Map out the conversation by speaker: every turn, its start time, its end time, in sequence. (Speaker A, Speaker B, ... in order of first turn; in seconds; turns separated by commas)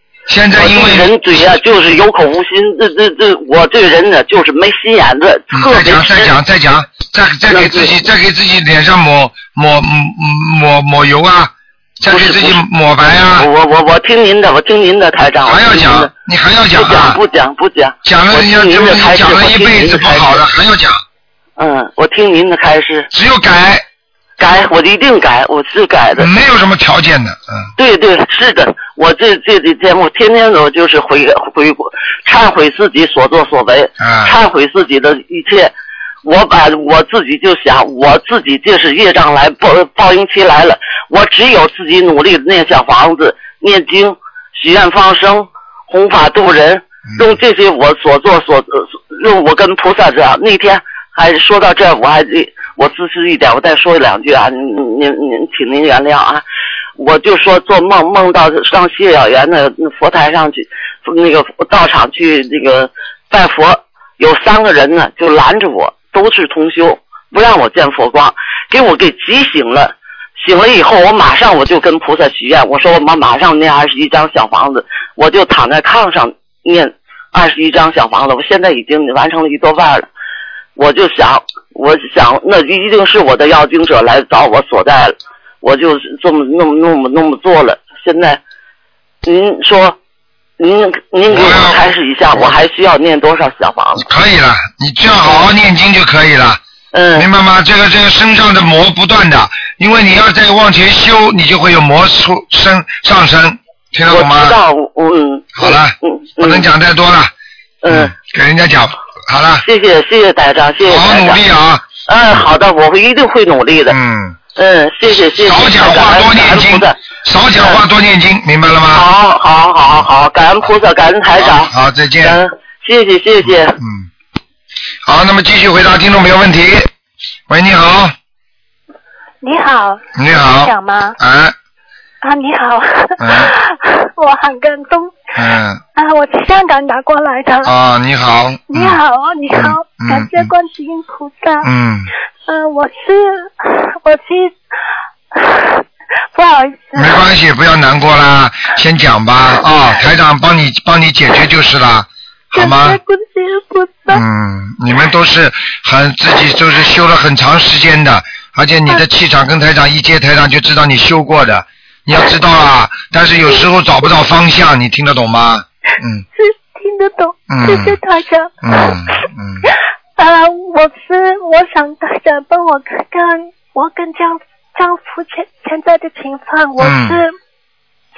Speaker A: 0.3-1.5, Speaker B: 0.5-6.3, Speaker A: 5.5-13.5, Speaker B: 7.5-7.9, Speaker B: 12.1-12.6, Speaker B: 13.3-16.1, Speaker A: 15.4-17.2, Speaker B: 16.7-20.4, Speaker A: 18.0-21.0, Speaker B: 21.6-23.1, Speaker A: 23.1-23.8, Speaker B: 24.4-26.3, Speaker A: 26.2-27.7, Speaker B: 27.8-56.4, Speaker A: 34.0-34.3, Speaker B: 57.0-80.1, Speaker B: 80.8-88.4, Speaker B: 89.2-90.0, Speaker B: 90.6-94.0, Speaker A: 91.3-91.8, Speaker A: 94.0-96.6, Speaker B: 96.9-97.3, Speaker A: 97.2-104.6, Speaker B: 104.1-106.7, Speaker A: 105.5-107.3, Speaker B: 107.8-108.1, Speaker A: 107.9-109.7, Speaker B: 109.6-111.4, Speaker A: 110.8-111.9, Speaker B: 112.0-114.0, Speaker A: 113.9-114.4, Speaker B: 114.5-117.0, Speaker A: 115.4-119.0, Speaker B: 117.5-117.8, Speaker B: 118.9-123.8, Speaker A: 121.4-122.4, Speaker A: 123.7-124.1, Speaker A: 125.0-126.9, Speaker A: 127.5-128.1, Speaker C: 129.4-131.2, Speaker A: 130.1-131.5, Speaker C: 132.2-135.3, Speaker A: 133.2-133.5, Speaker A: 135.3-135.8, Speaker C: 135.9-137.7, Speaker A: 137.6-139.0, Speaker C: 138.7-141.7, Speaker A: 139.5-140.5, Speaker A: 141.6-142.1, Speaker C: 142.4-144.6, Speaker C: 145.3-147.2, Speaker A: 146.9-153.0, Speaker C: 152.5-154.2, Speaker A: 154.1-166.2, Speaker C: 166.3-168.9, Speaker A: 167.5-168.0, Speaker A: 168.6-169.7, Speaker C: 169.6-177.3, Speaker A: 176.8-177.2